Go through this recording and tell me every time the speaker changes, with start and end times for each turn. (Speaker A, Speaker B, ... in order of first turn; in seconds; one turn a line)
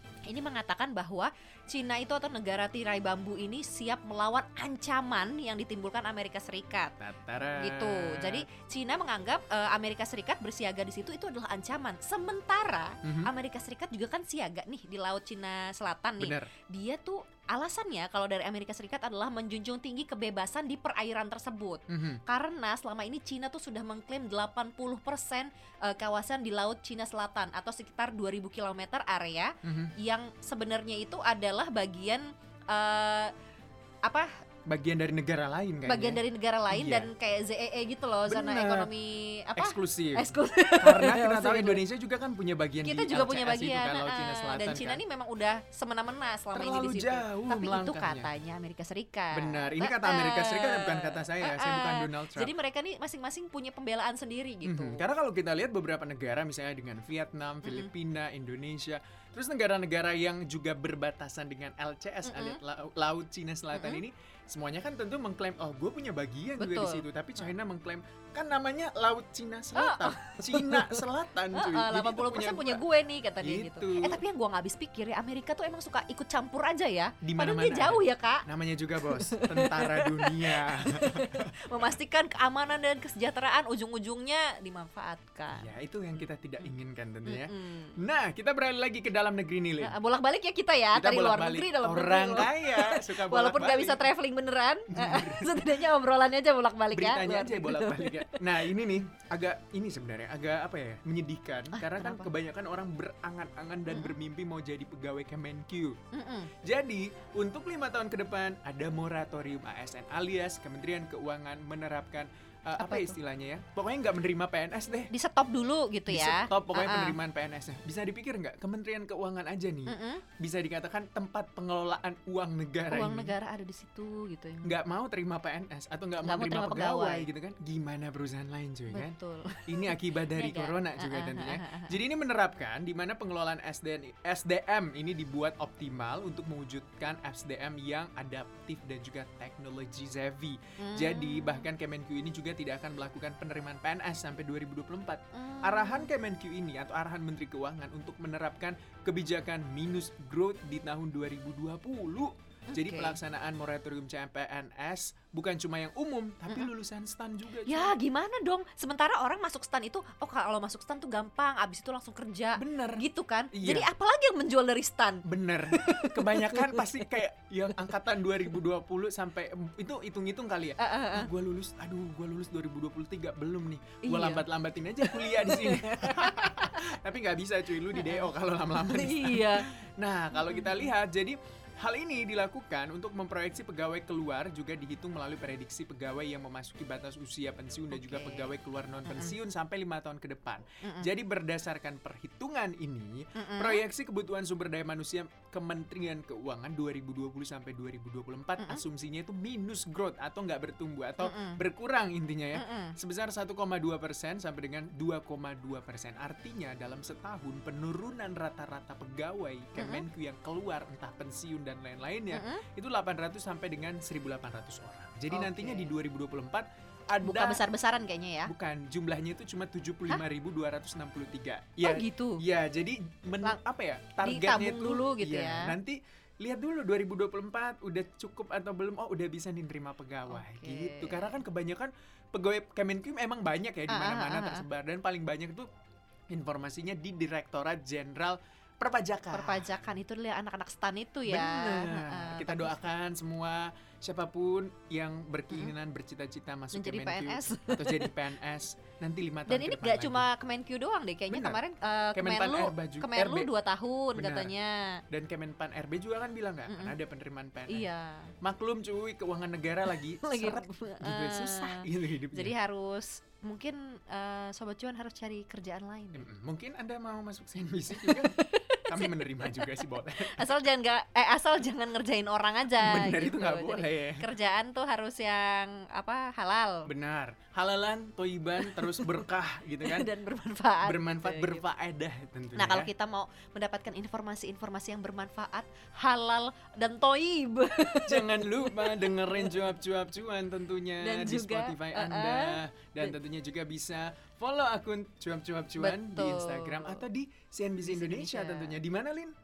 Speaker A: 0.2-6.9
Speaker B: 7.0-8.4
Speaker A: 7.5-33.3
Speaker B: 13.0-13.3
Speaker B: 16.2-16.5
Speaker B: 21.9-22.2
Speaker B: 29.6-29.9
Speaker A: 34.0-34.3
Speaker B: 34.6-37.1
Speaker A: 35.9-41.8
Speaker B: 38.3-38.9
Speaker B: 39.5-45.0
Speaker A: 42.8-55.0
Speaker B: 46.5-48.3
Speaker B: 49.3-52.5
Speaker B: 54.6-72.8
Speaker A: 57.6-57.9
Speaker A: 62.2-62.6
Speaker A: 63.7-64.0
Speaker A: 66.6-67.5
Speaker A: 69.8-78.4
Speaker B: 73.4-74.2
Speaker B: 77.2-81.5
Speaker A: 79.0-85.7
Speaker B: 85.5-89.9
Speaker A: 87.2-87.9
Speaker A: 89.8-98.7
Speaker B: 90.9-94.1
Speaker B: 94.9-95.8
Speaker B: 96.9-106.0
Speaker A: 101.7-102.3
Speaker A: 103.9-104.1
Speaker A: 106.1-106.5
Speaker B: 106.6-115.1
Speaker A: 112.8-113.2
Speaker A: 115.1-117.2
Speaker B: 116.1-123.3
Speaker A: 119.9-120.2
Speaker A: 122.9-124.8
Speaker B: 124.6-157.9
Speaker A: 126.2-127.3
Speaker A: 128.9-131.9
Speaker A: 140.8-141.7
Speaker A: 145.3-146.1
Speaker A: 152.7-153.2
Speaker A: 157.6-167.2
Speaker B: 162.6-163.9
Speaker B: 165.2-217.6
Speaker A: 170.8-171.3
Speaker A: 174.0-174.4
Speaker A: 175.0-176.9
Speaker A: 177.9-179.7
Speaker A: 180.3-180.9
Speaker A: 187.9-188.5
Speaker A: 189.0-189.3
Speaker A: 190.8-191.1
Speaker A: 193.3-193.8
Speaker A: 201.2-201.6
Speaker A: 202.5-202.9
Speaker A: 209.8-210.0
Speaker A: 212.3-212.6
Speaker A: 215.3-215.9
Speaker A: 217.2-218.5
Speaker B: 218.4-235.7
Speaker A: 221.8-222.4
Speaker A: 224.2-225.7
Speaker A: 230.3-231.4
Speaker A: 233.9-234.6
Speaker B: 236.3-239.9
Speaker A: 239.3-242.8
Speaker B: 241.3-250.3
Speaker A: 246.7-248.1
Speaker A: 249.5-255.0
Speaker B: 251.3-251.6
Speaker B: 252.1-253.5
Speaker B: 254.1-254.5
Speaker B: 255.1-257.9
Speaker A: 256.7-256.9
Speaker A: 257.7-258.3
Speaker B: 258.4-262.5
Speaker A: 260.2-266.2
Speaker B: 266.1-270.5
Speaker A: 267.9-276.9
Speaker B: 272.8-274.3
Speaker B: 276.9-280.1
Speaker A: 278.6-279.1
Speaker A: 279.8-281.6
Speaker B: 280.8-282.9
Speaker A: 282.6-289.7
Speaker B: 288.1-299.3
Speaker A: 291.0-293.1
Speaker A: 295.8-297.0
Speaker A: 297.8-298.8